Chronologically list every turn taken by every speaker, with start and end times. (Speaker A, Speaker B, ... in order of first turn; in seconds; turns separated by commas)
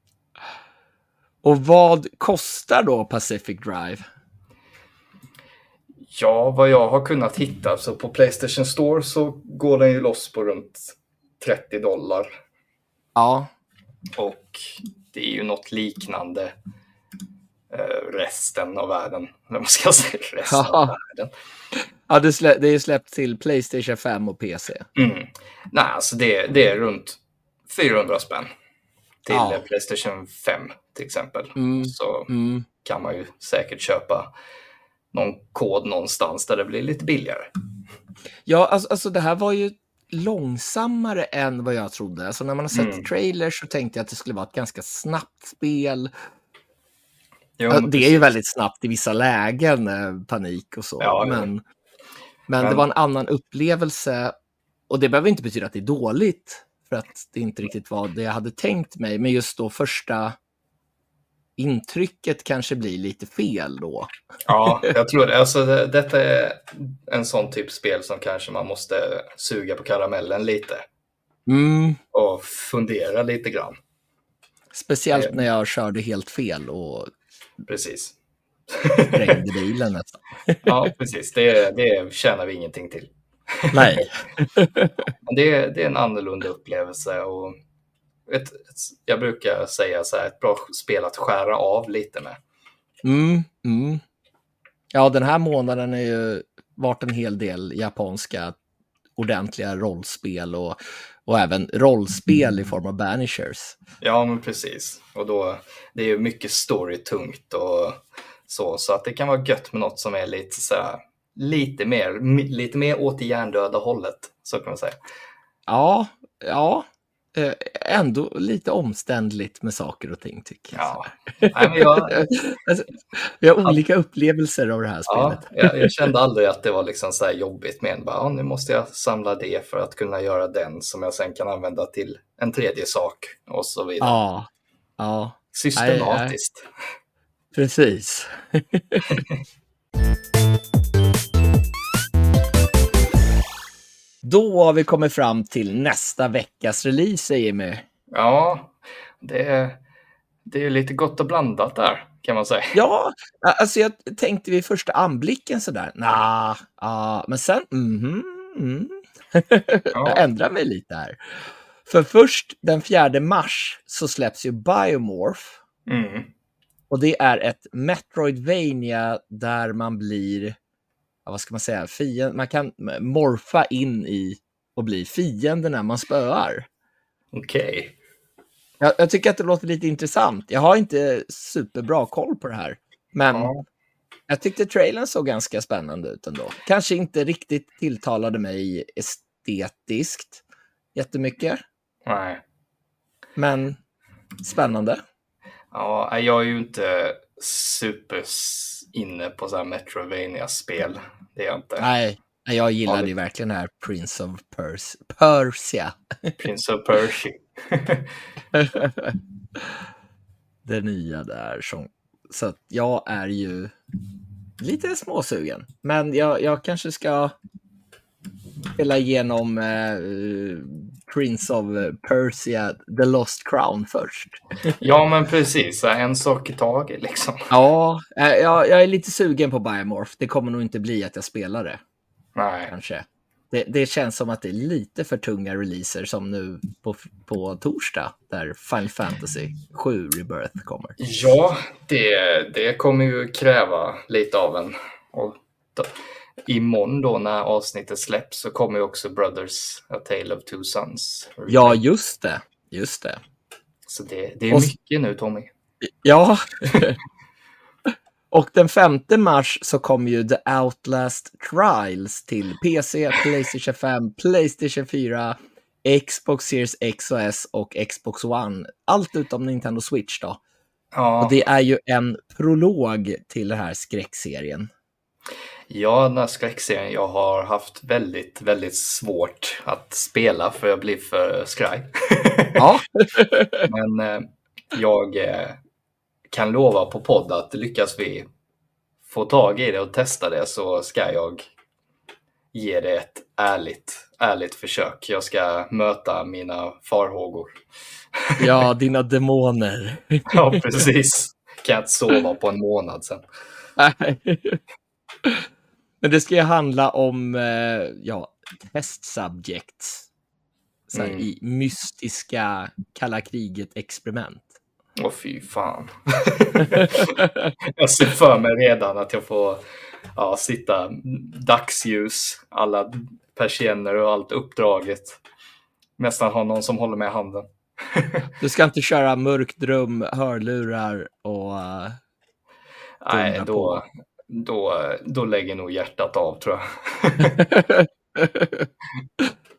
Speaker A: 1.4-4.0, Speaker B: 6.1-12.3, Speaker A: 13.2-13.5, Speaker B: 14.2-16.5, Speaker B: 17.7-21.3, Speaker A: 20.5-20.9, Speaker A: 22.1-24.9, Speaker B: 25.0-28.5, Speaker B: 29.2-32.3, Speaker A: 29.3-29.6, Speaker A: 31.6-32.6, Speaker B: 32.8-34.3, Speaker B: 35.1-37.5, Speaker A: 38.5-46.1, Speaker B: 42.7-43.1, Speaker B: 47.6-48.3, Speaker A: 47.7-51.6, Speaker B: 51.0-51.5, Speaker A: 52.5-54.3, Speaker A: 54.9-60.4, Speaker A: 61.6-64.1, Speaker B: 64.5-70.8, Speaker A: 71.5-72.0, Speaker B: 72.1-73.8, Speaker A: 74.7-77.1, Speaker B: 75.1-75.4, Speaker B: 77.7-78.2, Speaker B: 78.7-79.4, Speaker A: 79.1-80.6, Speaker B: 80.6-84.0, Speaker A: 83.7-85.1, Speaker B: 85.3-87.5, Speaker B: 88.3-92.4, Speaker A: 93.0-94.0, Speaker A: 94.9-98.6, Speaker A: 99.2-103.8, Speaker B: 104.0-115.0, Speaker A: 115.7-125.9, Speaker B: 120.8-122.3, Speaker B: 125.1-134.2, Speaker A: 134.0-134.5, Speaker A: 135.0-136.3, Speaker B: 135.5-136.7, Speaker A: 137.5-139.2, Speaker B: 139.1-139.4, Speaker A: 144.2-147.8, Speaker B: 148.1-149.8, Speaker B: 150.5-152.8, Speaker A: 152.7-161.2, Speaker B: 159.9-160.3, Speaker A: 161.9-165.6, Speaker B: 165.9-166.3, Speaker A: 166.9-170.6, Speaker A: 171.3-176.7, Speaker B: 177.3-178.0, Speaker A: 178.8-183.5, Speaker B: 183.3-183.6, Speaker A: 184.3-190.4, Speaker A: 190.9-191.6, Speaker B: 192.1-192.4, Speaker A: 193.4-193.8, Speaker A: 194.4-195.0, Speaker B: 195.7-201.9, Speaker A: 201.8-206.4, Speaker B: 206.4-208.1, Speaker A: 208.5-209.7, Speaker A: 210.7-213.7, Speaker A: 214.6-217.3, Speaker A: 218.8-224.8, Speaker B: 224.8-227.5, Speaker A: 227.5-231.8, Speaker B: 232.4-232.7, Speaker A: 232.7-241.0, Speaker B: 241.0-245.9, Speaker B: 246.5-251.8, Speaker A: 251.5-253.2, Speaker B: 253.9-255.5, Speaker A: 255.8-257.0, Speaker B: 256.7-256.9, Speaker A: 258.3-270.4, Speaker B: 270.9-271.4, Speaker A: 271.2-274.7, Speaker B: 275.7-282.6, Speaker A: 282.6-283.7, Speaker B: 283.7-285.6, Speaker B: 286.3-288.3, Speaker B: 289.1-291.5, Speaker B: 292.5-297.6, Speaker B: 298.3-298.6, Speaker A: 298.4-300.6, Speaker B: 300.3-303.2, Speaker A: 303.8-304.6, Speaker A: 306.0-310.1, Speaker A: 310.9-314.6, Speaker B: 310.9-311.2, Speaker B: 315.0-319.6, Speaker A: 317.1-317.5, Speaker B: 320.2-325.2, Speaker B: 326.0-328.3, Speaker A: 328.4-332.0, Speaker B: 333.0-337.5, Speaker A: 333.1-333.8, Speaker A: 337.4-339.3